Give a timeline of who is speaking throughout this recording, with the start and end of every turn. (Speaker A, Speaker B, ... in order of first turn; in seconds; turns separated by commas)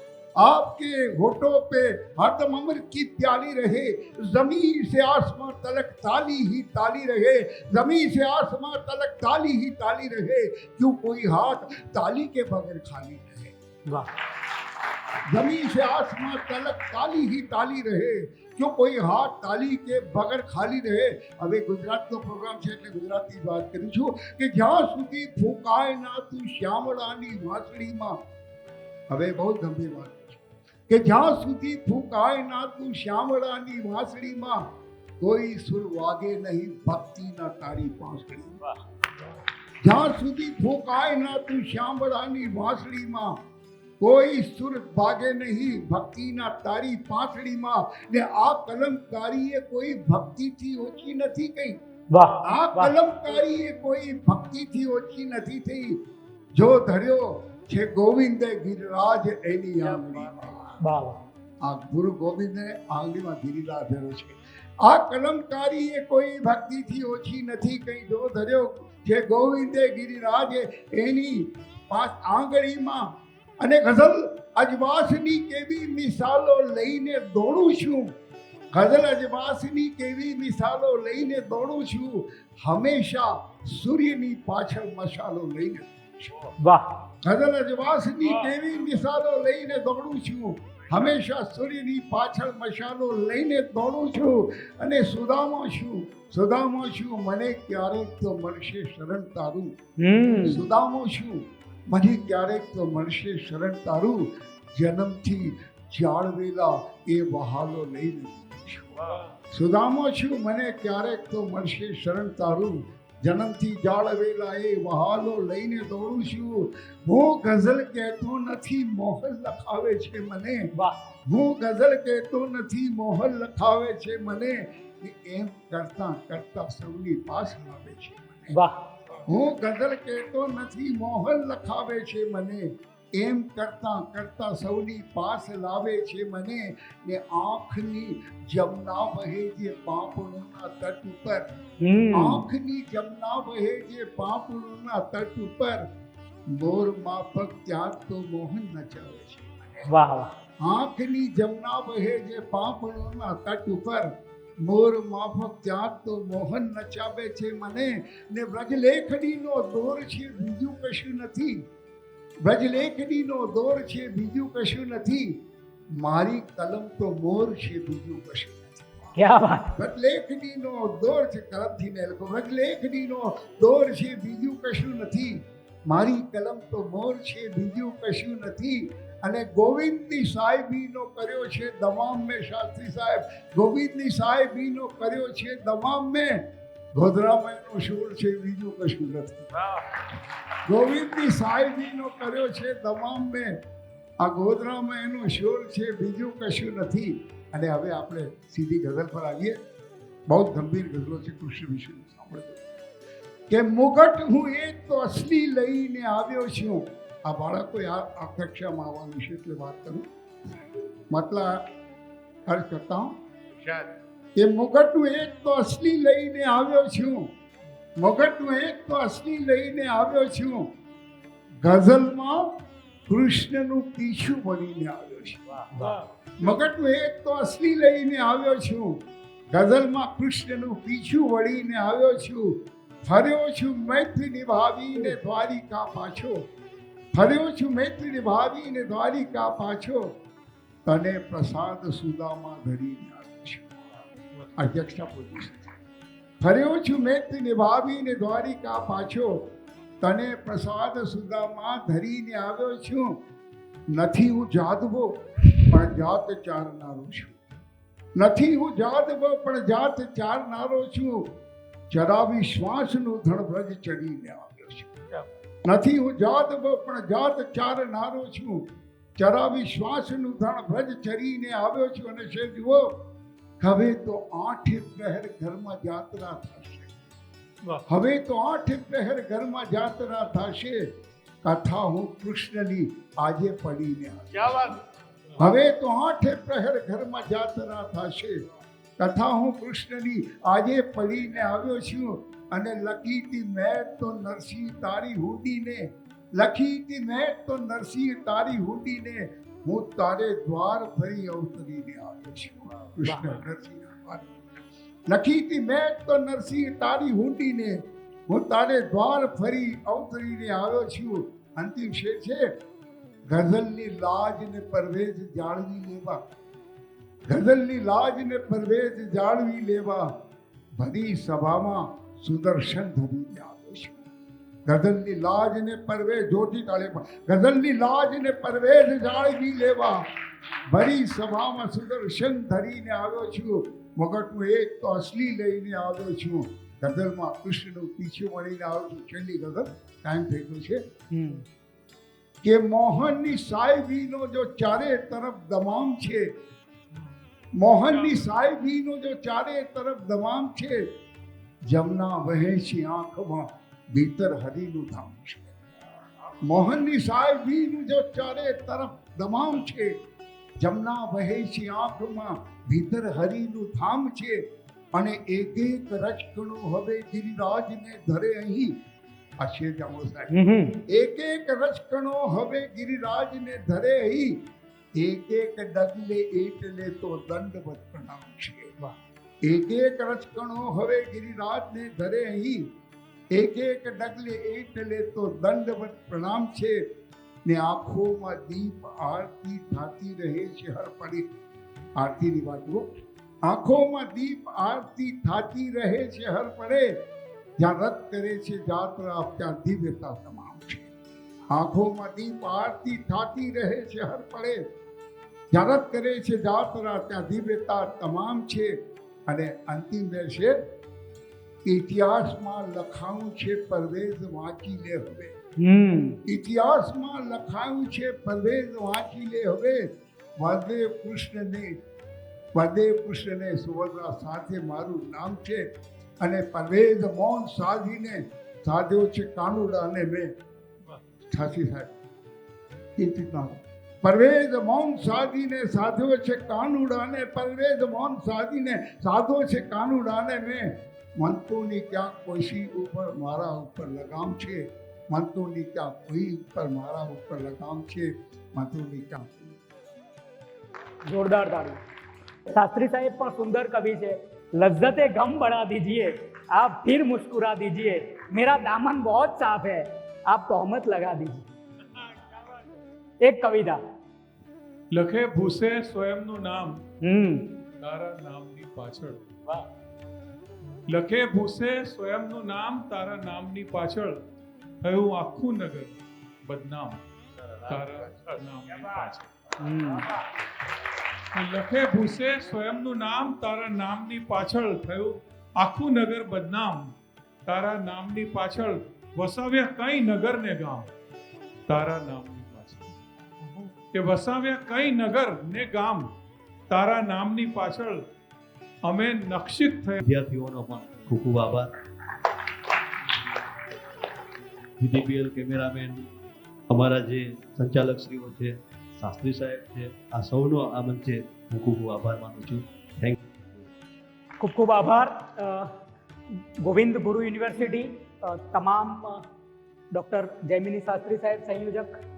Speaker A: 0.4-13.5, Speaker A: 15.3-28.2, Speaker A: 29.1-34.6, Speaker A: 35.2-38.7, Speaker A: 39.8-43.4, Speaker A: 44.0-51.8, Speaker B: 52.1-52.9, Speaker A: 52.4-56.0, Speaker A: 56.5-60.8, Speaker B: 60.8-61.2, Speaker A: 61.6-78.1, Speaker A: 78.7-86.5, Speaker B: 86.6-86.9, Speaker A: 87.2-99.7, Speaker B: 100.0-100.7, Speaker A: 100.4-109.0, Speaker A: 109.5-120.6, Speaker B: 120.7-121.0, Speaker A: 121.2-128.6, Speaker B: 128.5-128.8, Speaker A: 129.2-141.5, Speaker B: 141.8-142.4, Speaker A: 142.1-145.8, Speaker A: 146.5-149.9, Speaker B: 149.9-150.3, Speaker A: 150.6-154.1, Speaker A: 154.6-161.6, Speaker A: 162.4-165.3, Speaker A: 166.0-169.1, Speaker B: 169.2-169.7, Speaker A: 169.7-189.5, Speaker A: 190.7-193.6, Speaker A: 194.2-199.6, Speaker A: 200.3-202.6, Speaker A: 203.5-211.6, Speaker A: 212.5-213.2, Speaker A: 214.4-217.3, Speaker A: 218.0-220.7, Speaker A: 221.6-222.4, Speaker A: 223.1-225.7, Speaker A: 226.4-236.4, Speaker A: 237.1-240.1, Speaker A: 240.8-243.8, Speaker A: 244.6-245.7, Speaker A: 246.4-249.5, Speaker A: 250.0-253.2, Speaker A: 253.9-257.4, Speaker A: 258.2-261.3, Speaker A: 261.9-264.9, Speaker A: 265.6-268.6, Speaker A: 269.2-272.9, Speaker A: 273.6-276.9, Speaker A: 277.9-280.9, Speaker A: 281.4-284.8, Speaker A: 285.4-288.4, Speaker A: 289.0-304.3, Speaker B: 303.1-303.4, Speaker A: 305.1-312.5, Speaker A: 313.3-316.2, Speaker A: 317.3-320.1, Speaker A: 320.8-324.1, Speaker A: 324.7-330.1, Speaker A: 330.7-340.8, Speaker B: 341.1-341.4, Speaker A: 342.4-346.3, Speaker A: 347.6-350.8, Speaker A: 351.6-355.6, Speaker A: 356.4-360.0, Speaker A: 360.6-364.4, Speaker A: 364.9-368.7, Speaker A: 369.4-370.3, Speaker B: 370.3-370.8, Speaker A: 370.9-374.4, Speaker A: 375.0-378.7, Speaker A: 379.4-382.6, Speaker A: 383.3-386.8, Speaker A: 387.4-391.3, Speaker A: 392.0-392.9, Speaker A: 393.4-397.0, Speaker A: 397.6-400.9, Speaker A: 401.5-404.6, Speaker A: 405.5-408.7, Speaker A: 409.3-410.6, Speaker A: 411.6-415.3, Speaker B: 415.6-416.2, Speaker A: 416.2-419.9, Speaker A: 420.4-421.7, Speaker A: 422.5-425.6, Speaker A: 426.2-430.3, Speaker A: 431.3-431.9, Speaker A: 433.0-449.6, Speaker B: 451.0-451.8, Speaker B: 452.5-461.5, Speaker B: 463.2-463.8, Speaker C: 464.9-466.8, Speaker B: 467.0-467.6, Speaker C: 467.8-469.6, Speaker C: 470.9-474.2, Speaker C: 474.8-475.9, Speaker C: 476.4-477.0, Speaker C: 477.6-479.3, Speaker B: 479.6-480.1, Speaker C: 481.3-486.9, Speaker C: 487.4-490.9, Speaker C: 491.7-496.1, Speaker C: 496.7-498.0, Speaker C: 498.8-500.0, Speaker D: 500.0-501.7, Speaker D: 504.8-506.1, Speaker D: 506.7-513.2, Speaker B: 514.4-515.7, Speaker B: 516.3-519.2, Speaker B: 519.9-521.9